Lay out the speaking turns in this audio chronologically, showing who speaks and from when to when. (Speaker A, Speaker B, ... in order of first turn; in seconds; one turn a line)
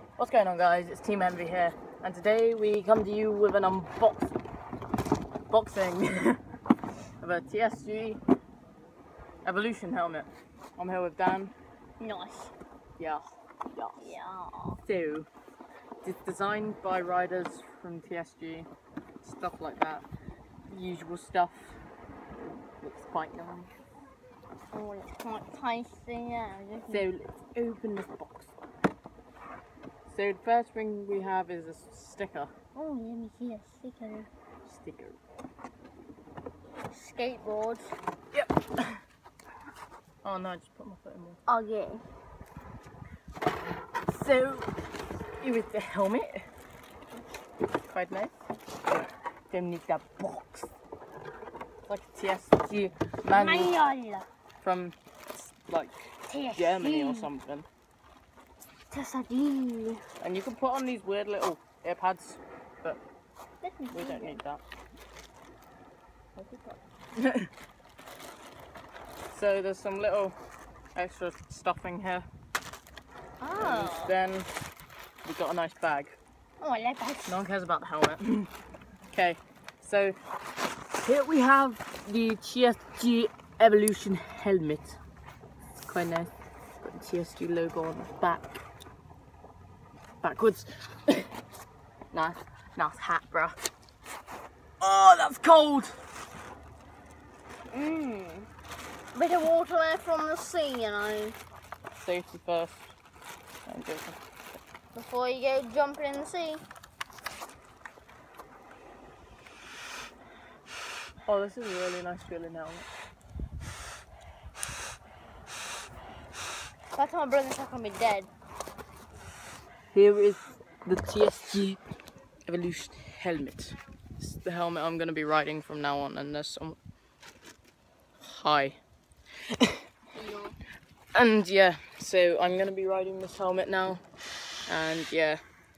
Speaker A: 0.2-4.4
Speaker A: 5.5-6.4
Speaker A: 7.2-8.2
Speaker A: 9.4-11.5
Speaker B: 12.0-12.5
Speaker A: 13.0-13.2
Speaker B: 13.9-14.8
Speaker A: 14.8-15.3
Speaker A: 16.0-18.7
Speaker A: 19.2-20.0
Speaker A: 20.7-21.8
Speaker A: 22.4-23.7
Speaker B: 24.7-27.1
Speaker A: 26.9-28.5
Speaker A: 30.1-32.5
Speaker B: 32.7-34.3
Speaker A: 34.6-35.2
Speaker B: 36.9-37.9
Speaker A: 38.3-39.0
Speaker A: 40.2-41.4
Speaker B: 41.5-42.0
Speaker A: 44.1-44.8
Speaker A: 45.4-46.4
Speaker A: 47.9-48.3
Speaker A: 49.5-50.7
Speaker A: 51.9-53.8
Speaker B: 53.3-54.3
Speaker A: 54.6-57.7
Speaker B: 56.3-57.3
Speaker B: 58.9-60.0
Speaker A: 60.2-63.0
Speaker B: 63.6-64.4
Speaker A: 63.9-64.6
Speaker A: 66.4-67.5
Speaker A: 69.3-70.3
Speaker A: 70.9-72.3
Speaker B: 73.4-74.1
Speaker A: 73.6-74.5
Speaker A: 75.2-76.2
Speaker B: 76.6-77.4
Speaker A: 77.2-78.5
Speaker A: 79.1-80.2
Speaker A: 81.0-85.0
Speaker A: 85.8-88.6
Speaker A: 90.2-91.3
Speaker A: 92.1-93.5
Speaker A: 94.8-96.0
Speaker B: 97.7-98.5
Speaker B: 99.1-101.4
Speaker A: 102.0-102.9
Speaker A: 103.7-104.2
Speaker B: 104.9-106.6
Speaker A: 111.2-112.9
Speaker B: 116.9-118.3
Speaker A: 119.9-121.8
Speaker A: 122.5-126.8
Speaker A: 128.2-128.8
Speaker A: 129.5-129.8
Speaker B: 130.2-130.5
Speaker A: 131.1-134.0
Speaker A: 134.7-135.4